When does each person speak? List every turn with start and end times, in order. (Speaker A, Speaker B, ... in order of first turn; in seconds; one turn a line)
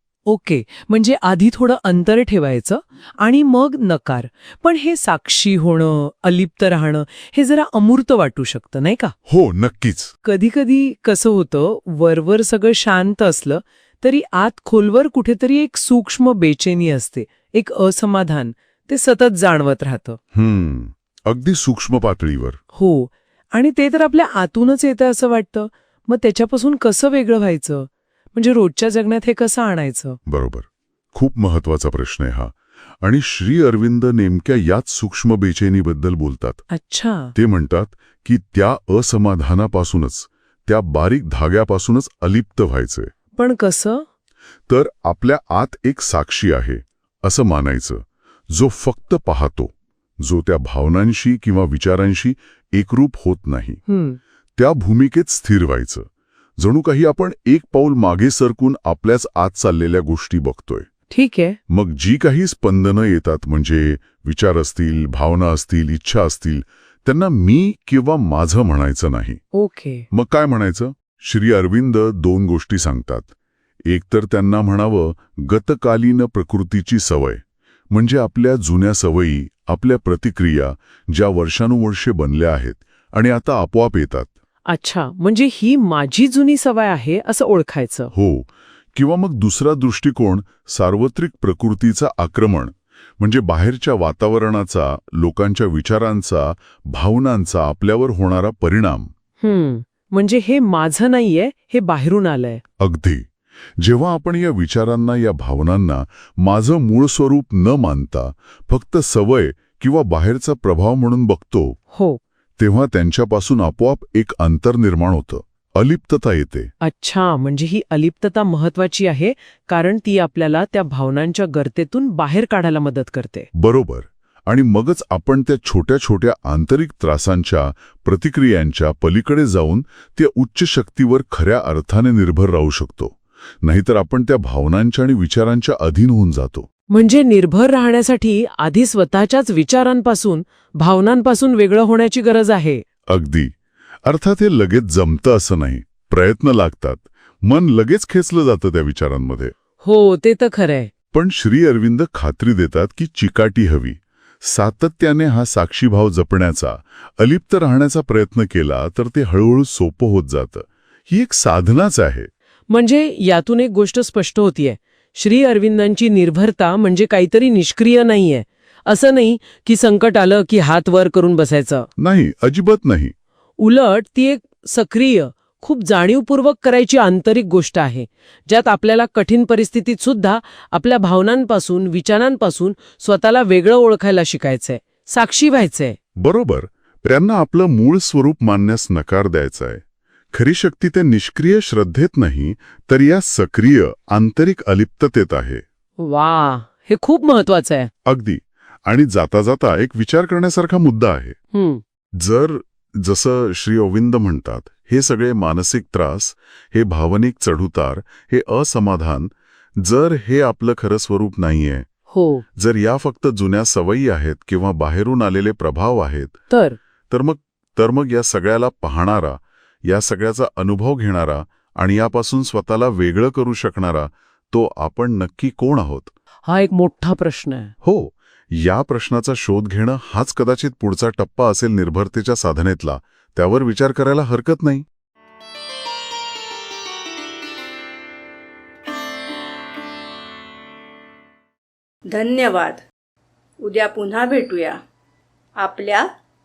Speaker A: 0.3-9.1
Speaker B: 9.3-10.1
Speaker A: 10.2-20.2
Speaker B: 20.3-22.6
Speaker A: 22.7-30.2
Speaker B: 30.3-36.6
Speaker A: 36.7-37.3
Speaker B: 37.4-43.1
Speaker A: 43.4-44.0
Speaker B: 44.7-53.8
Speaker A: 53.9-54.2
Speaker B: 54.6-56.1
Speaker B: 56.6-60.9
Speaker A: 61.1-61.6
Speaker B: 61.7-69.4
Speaker A: 69.5-70.0
Speaker B: 70.1-73.3
Speaker B: 73.9-84.3
Speaker A: 84.7-88.1
Speaker B: 88.1-99.1
Speaker A: 99.4-102.6
Speaker B: 102.8-111.8
Speaker A: 111.9-112.2
Speaker B: 112.6-116.7
Speaker A: 116.8-123.5
Speaker B: 123.5-136.7
Speaker A: 136.9-142.8
Speaker B: 143.1-143.5
Speaker B: 144.1-149.6
Speaker A: 149.8-150.9
Speaker B: 151.1-162.3
Speaker A: 162.7-171.9
Speaker B: 172.0-173.1
Speaker A: 173.6-186.0
Speaker B: 186.2-195.6
Speaker A: 196.0-197.9
Speaker B: 198.1-201.4
Speaker A: 201.5-201.8
Speaker B: 202.2-211.9
Speaker A: 212.1-212.4
Speaker B: 212.6-216.4
Speaker A: 216.5-216.8
Speaker B: 217.1-226.1
Speaker A: 226.4-227.7
Speaker B: 227.8-234.9
Speaker C: 242.1-242.8
Speaker C: 243.6-244.8
Speaker C: 245.6-246.1